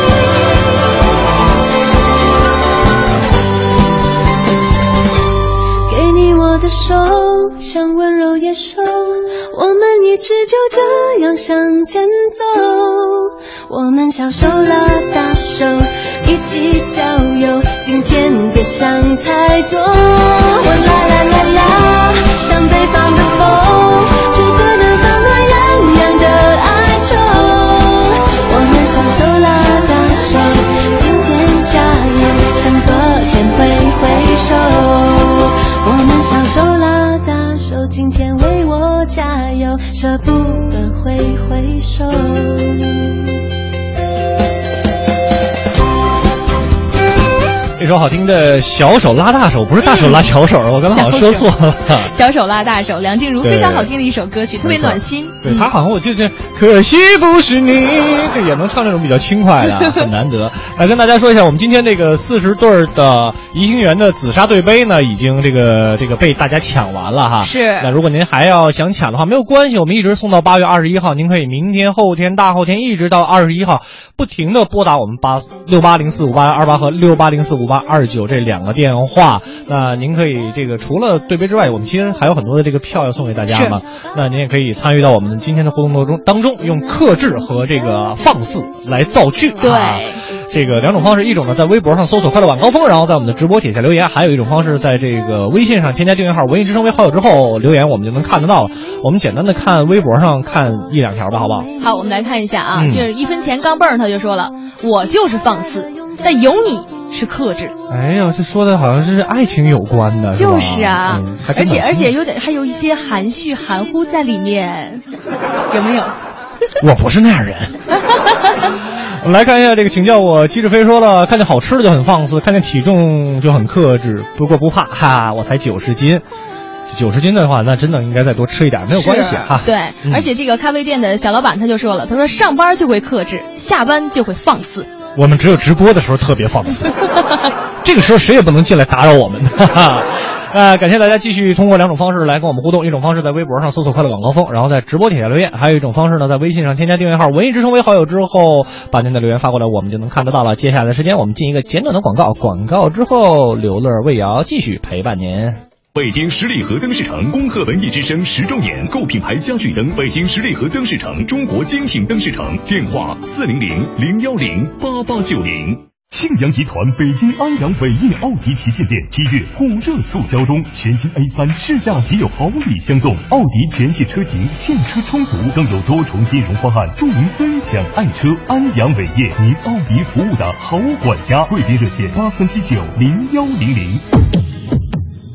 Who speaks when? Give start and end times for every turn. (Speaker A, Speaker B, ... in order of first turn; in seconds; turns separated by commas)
Speaker A: 5.9-43.0, Speaker B: 47.8-52.1, Speaker C: 49.8-50.2, Speaker C: 50.9-51.5, Speaker C: 52.0-55.7, Speaker B: 53.4-53.9, Speaker B: 54.6-101.7, Speaker C: 67.4-67.9, Speaker C: 83.5-83.8, Speaker C: 89.6-90.2, Speaker C: 101.8-107.8, Speaker B: 102.7-103.1, Speaker B: 107.9-112.1, Speaker C: 110.3-115.0, Speaker C: 115.7-116.1, Speaker B: 116.8-117.7, Speaker B: 119.2-126.2, Speaker B: 126.9-130.3, Speaker C: 128.9-134.9, Speaker B: 135.2-136.9, Speaker B: 137.8-155.6, Speaker D: 155.9-165.8, Speaker E: 166.0-184.0